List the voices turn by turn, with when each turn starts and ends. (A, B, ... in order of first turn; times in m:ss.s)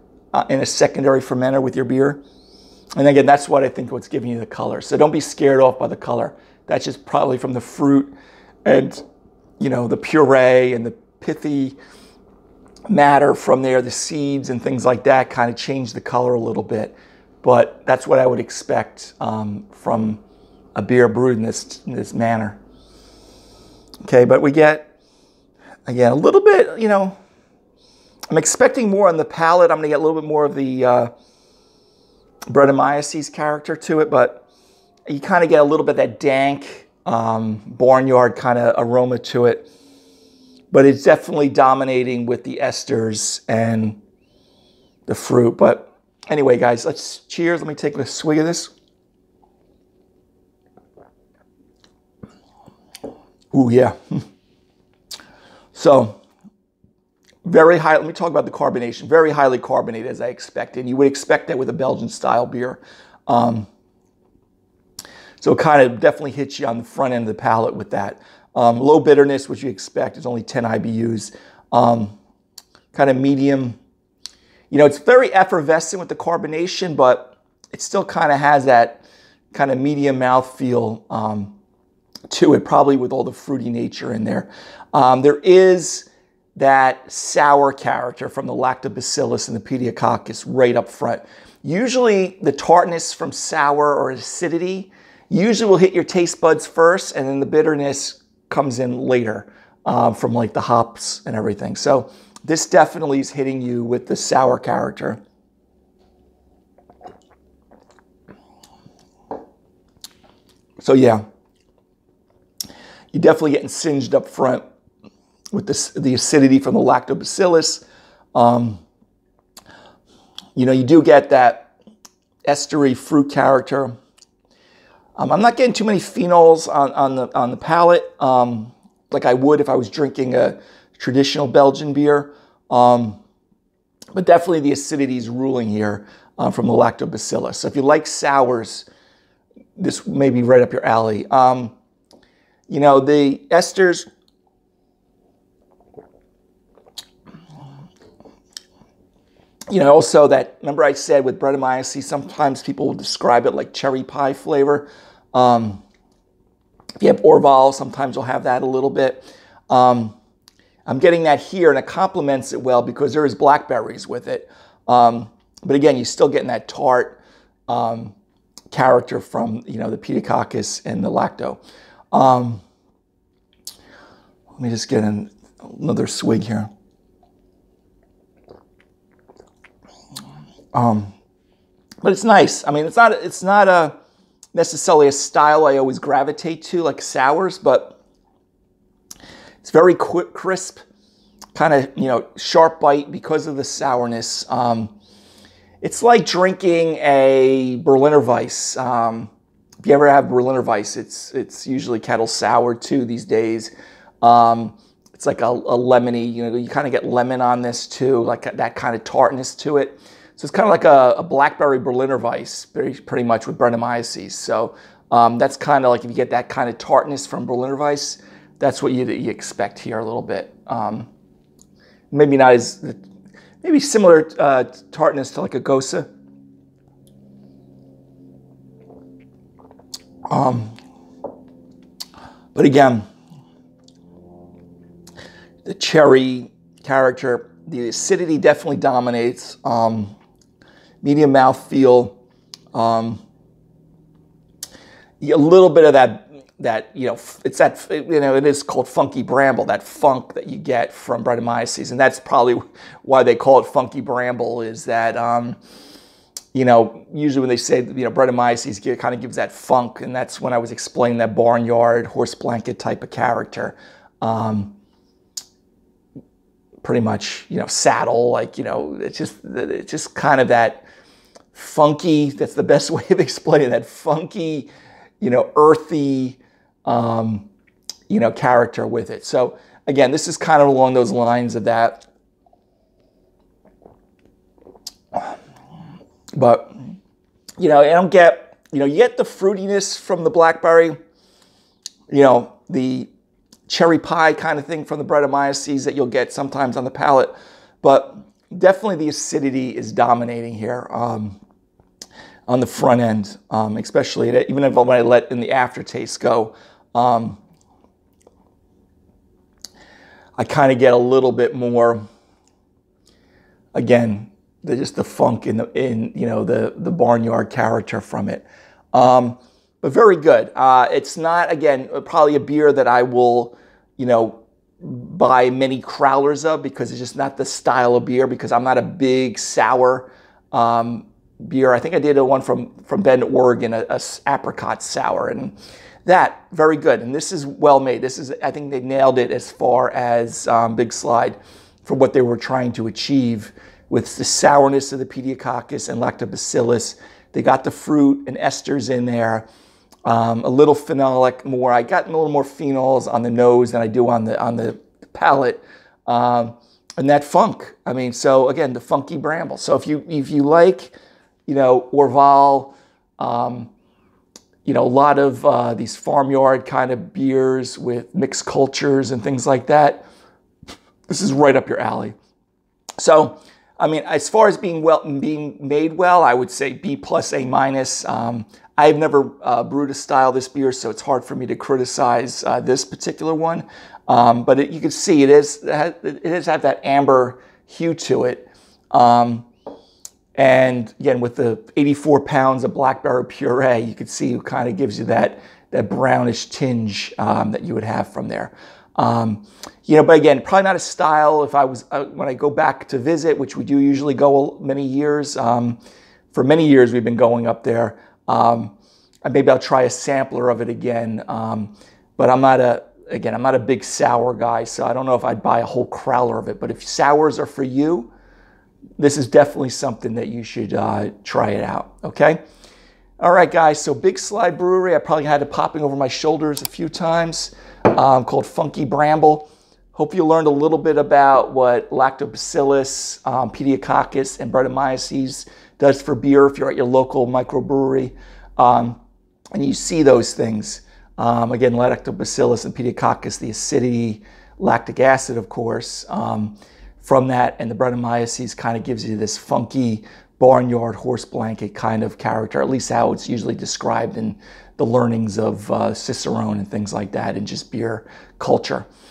0:00.3-0:02.2 A
0:03.0-0:08.1 A
0:08.6-0:09.0 A
0:09.6-0:11.8 A
0:12.9-0:20.2 A
0:20.7-0:22.6 A
0:24.0-0:24.9 A
0:25.8-0:27.1 A
0:28.3-0:31.1 A
0:32.5-0:34.4 A
0:35.1-0:39.7 A
0:40.7-0:44.0 A
0:45.1-0:48.7 A
0:53.5-0:54.2 A
0:55.7-0:56.2 A
0:57.4-1:03.7 A
1:05.4-1:12.1 A
1:12.9-1:13.8 A
1:14.7-1:21.6 A
1:22.3-1:45.2 A
1:50.8-1:51.2 A
1:53.1-1:54.6 A
1:55.5-1:58.8 A
2:00.5-2:01.7 A
2:02.4-2:04.0 A
2:05.2-2:13.2 A
2:14.1-2:18.9 A
2:19.8-2:21.7 A
2:22.7-2:24.0 A
2:29.7-2:35.8 A
2:37.0-2:40.1 A
2:40.8-2:48.1 A
2:48.7-2:51.6 A
2:52.1-2:52.6 A
2:54.5-2:56.7 A
3:00.7-3:01.1 A
3:02.0-3:03.9 A
3:04.5-3:08.0 A
3:09.6-3:10.8 A
3:11.5-3:14.9 A
3:15.8-3:19.3 A
3:19.8-3:41.1 A
3:42.1-3:43.0 A
3:43.6-3:46.1 A
3:50.3-3:50.8 A
3:52.5-3:53.0 A
3:55.6-4:00.2 A
4:01.0-4:02.2 A
4:02.7-4:03.2 A
4:05.2-4:15.6 A
4:16.5-4:24.7 A
4:26.8-4:30.8 A
4:31.5-4:37.5 A
4:38.1-4:42.0 A
4:46.3-4:46.7 A
4:47.6-4:51.0 A
4:52.1-4:53.1 A
4:53.7-5:01.4 A
5:02.5-5:07.4 A
5:10.4-5:12.0 A
5:13.7-5:49.5 A
5:50.0-6:00.9 A
6:01.5-6:03.7 A
6:04.6-6:10.0 A
6:11.1-6:12.1 A
6:13.0-6:29.5 A
6:30.4-6:45.8 A
6:46.3-6:58.1 A
6:59.0-7:02.4 A
7:03.2-7:19.0 A
7:19.5-7:38.9 A